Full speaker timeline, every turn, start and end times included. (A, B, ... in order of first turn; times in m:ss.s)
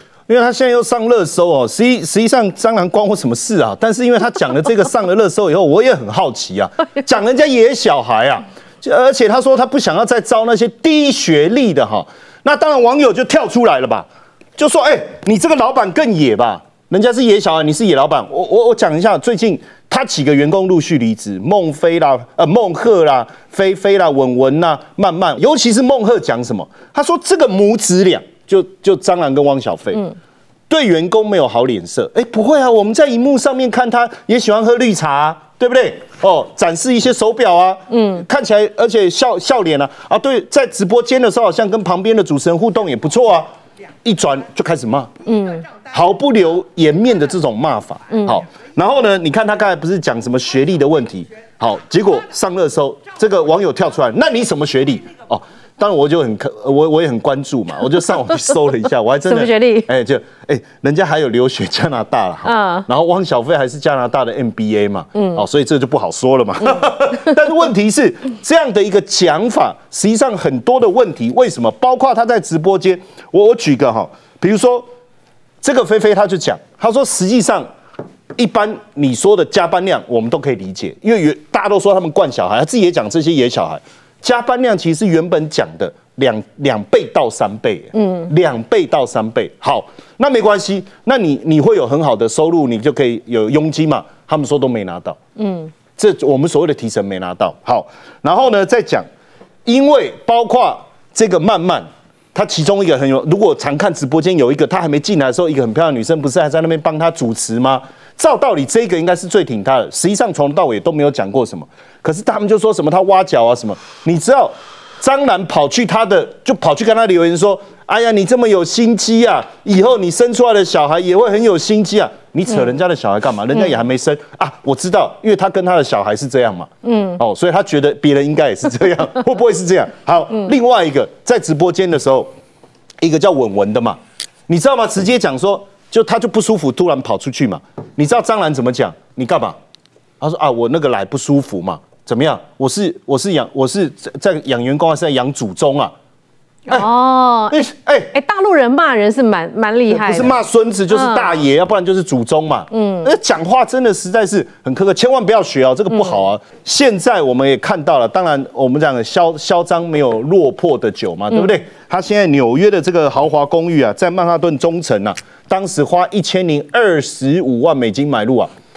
0:00.3-0:30.1 A
0:30.7-0:43.4 A
0:37.9-0:38.2 B
0:44.0-0:45.1 A
0:45.2-0:45.7 B
0:45.8-1:14.8 A
0:59.2-0:59.9 B
1:02.4-1:02.9 B
1:15.6-1:17.6 A
1:18.4-1:35.2 A
1:27.9-1:28.3 B
1:35.4-1:35.7 B
1:36.0-1:39.0 A
1:39.6-2:12.3 A
2:06.8-2:07.2 B
2:13.0-2:19.6 A
2:20.2-2:25.9 A
2:26.7-2:26.9 A
2:26.7-2:27.6 B
2:27.5-2:28.1 A
2:28.1-2:30.4 B
2:29.9-2:48.5 A
2:30.9-2:31.4 B
2:32.7-2:33.1 B
2:35.9-2:36.2 B